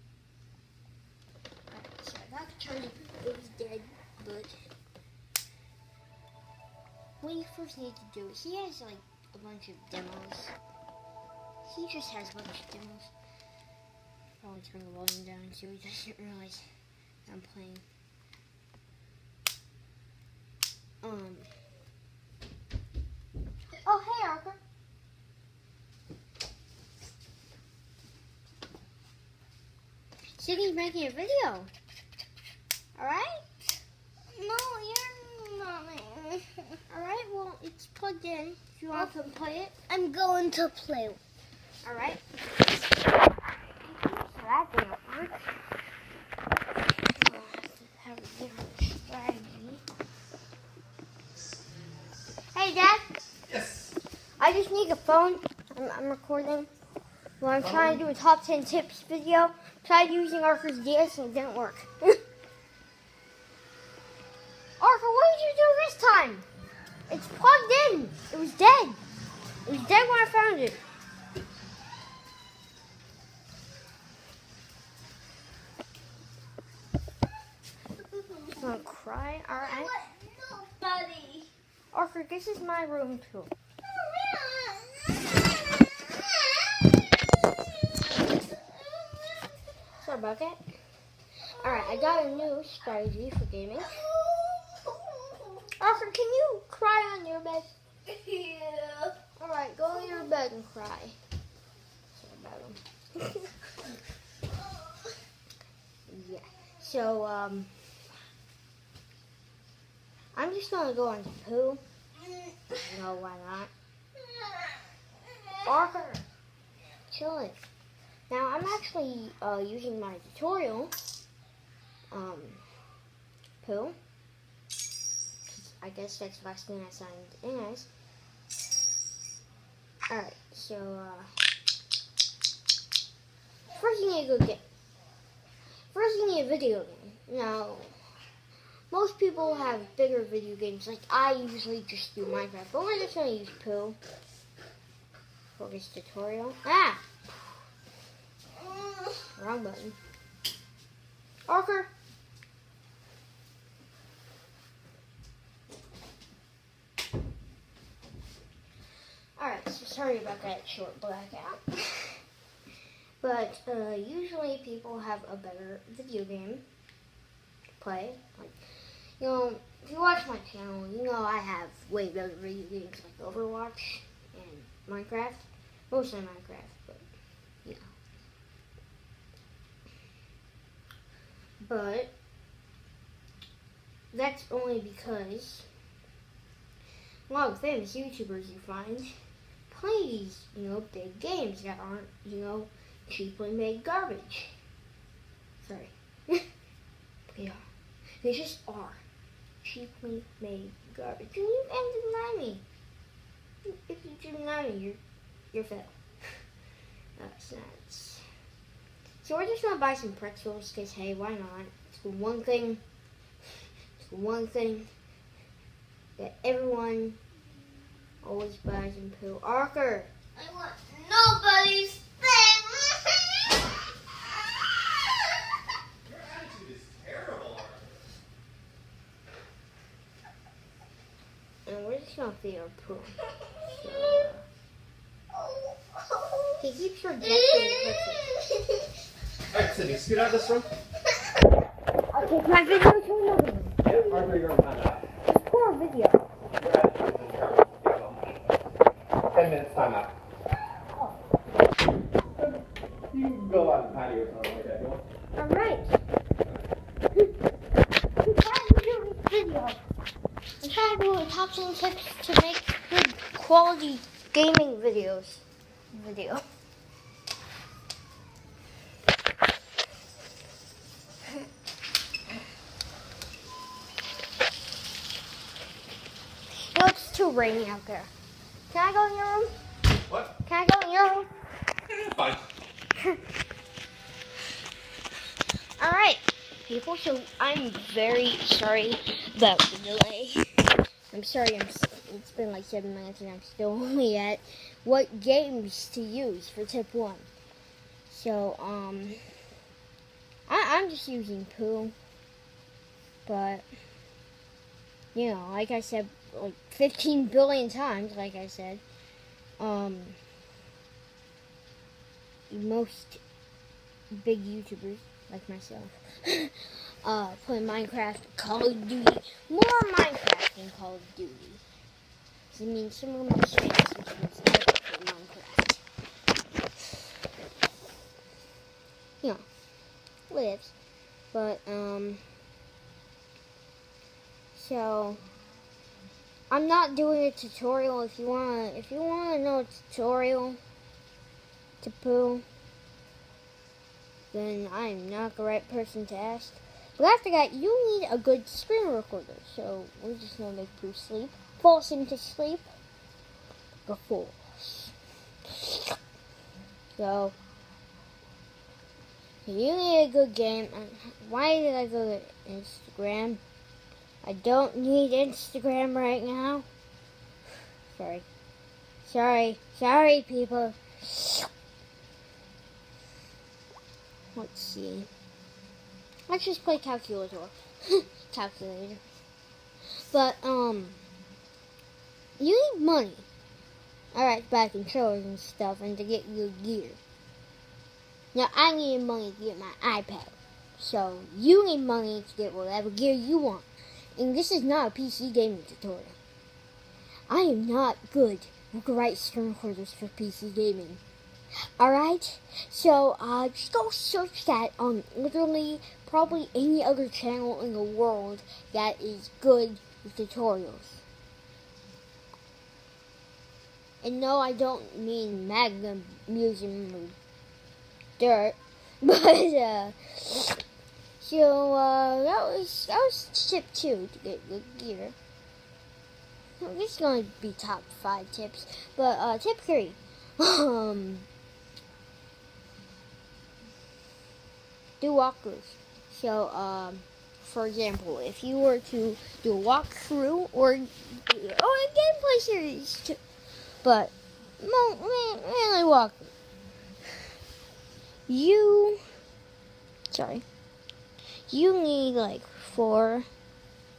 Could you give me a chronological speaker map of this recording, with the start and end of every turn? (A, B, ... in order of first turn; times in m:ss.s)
0:01.7-0:04.5 A
0:07.2-0:10.6 A
0:11.6-0:13.1 A
0:14.4-0:16.6 A
0:17.3-0:17.8 A
0:21.0-0:21.5 A
0:23.8-0:24.6 A
0:30.4-0:31.7 A
0:33.0-0:39.9 A
0:39.9-0:41.2 B
0:41.8-0:42.2 A
0:43.8-0:45.5 A
0:47.1-0:49.8 A
0:52.5-0:53.2 A
0:53.5-0:53.9 C
0:54.4-0:56.7 A
0:57.4-1:02.2 A
1:04.8-1:06.5 A
1:07.1-1:09.0 A
1:09.6-1:10.8 A
1:18.0-1:18.6 B
1:18.6-1:19.9 A
1:19.6-1:21.5 B
1:21.9-1:23.5 A
1:23.9-1:27.0 B
1:28.0-1:29.7 B
1:30.0-1:30.6 A
1:31.6-1:32.4 B
1:31.6-1:34.0 A
1:33.9-1:35.7 B
1:35.8-1:37.8 A
1:38.1-1:39.2 B
1:39.4-1:41.2 A
1:42.1-1:43.8 A
1:46.1-1:48.0 A
1:50.4-1:51.8 A
1:52.8-1:53.7 A
1:54.2-1:54.7 B
1:55.6-1:56.2 A
1:57.1-1:57.6 A
1:58.3-2:00.9 A
2:02.1-2:02.6 A
2:03.6-2:04.0 A
2:05.5-2:07.9 A
2:10.1-2:11.3 A
2:13.7-2:14.6 A
2:15.9-2:18.0 A
2:18.9-2:24.0 A
2:25.6-2:27.1 A
2:28.6-2:29.1 B
2:29.4-2:30.0 A
2:31.5-2:31.9 A
2:39.4-2:42.2 A
2:43.2-2:46.6 A
2:47.8-2:57.1 A
2:57.6-2:57.9 A
3:01.6-3:02.1 A
3:04.1-3:05.7 A
3:07.3-3:09.1 A
3:09.7-3:14.6 A
3:15.6-3:16.5 A
3:17.3-3:17.7 A
3:18.2-3:19.0 A
3:19.6-3:22.6 A
3:23.6-3:25.0 A
3:25.5-3:26.4 A
3:27.2-3:28.2 A
3:29.2-3:32.8 A
3:34.0-3:34.9 A
3:36.2-3:37.2 A
3:38.2-3:40.1 A
3:40.3-3:43.7 B
3:46.0-3:48.0 C
3:51.7-3:54.4 A
3:55.3-3:56.6 B
3:56.6-3:58.3 A
3:57.2-3:59.0 B
3:59.5-4:00.7 C
4:02.1-4:04.3 A
4:03.8-4:05.1 C
4:05.3-4:06.3 A
4:06.6-4:08.4 C
4:09.3-4:10.1 C
4:13.1-4:15.0 C
4:15.4-4:16.0 A
4:18.2-4:19.8 A
4:20.6-4:26.4 A
4:36.5-4:38.1 A
4:38.7-4:39.5 A
4:40.1-4:40.3 C
4:40.4-4:41.3 A
4:41.9-4:42.5 C
4:45.8-4:50.5 A
4:51.1-4:57.3 A
4:58.1-4:59.2 A
5:00.5-5:02.0 A
5:03.3-5:03.6 A
5:05.1-5:08.8 A
5:09.6-5:10.2 A
5:12.5-5:13.2 A
5:14.1-5:21.6 A
5:22.5-5:25.8 A
5:30.3-5:30.7 A
5:31.3-5:32.2 A
5:34.5-5:35.2 A
5:36.5-5:40.6 A
5:41.8-5:42.4 A
5:44.3-5:52.7 A
5:53.9-5:54.9 A
5:55.5-5:56.0 A
5:57.0-5:57.4 A
5:59.4-6:03.4 A
6:04.2-6:06.6 A
6:07.9-6:08.2 A
6:09.0-6:11.5 A
6:14.4-6:15.1 A
6:16.3-6:19.0 A
6:20.1-6:21.0 A
6:22.4-6:23.3 A
6:24.1-6:27.0 A
6:28.3-6:36.2 A
6:37.3-6:41.0 A
6:41.8-6:51.0 A
6:54.0-6:57.2 A
6:58.2-7:00.6 A
7:01.2-7:05.2 A
7:06.6-7:11.3 A
7:15.0-7:23.2 A
7:23.8-7:26.3 A
7:28.3-7:29.0 A
7:30.1-7:30.4 A
7:31.5-7:33.3 A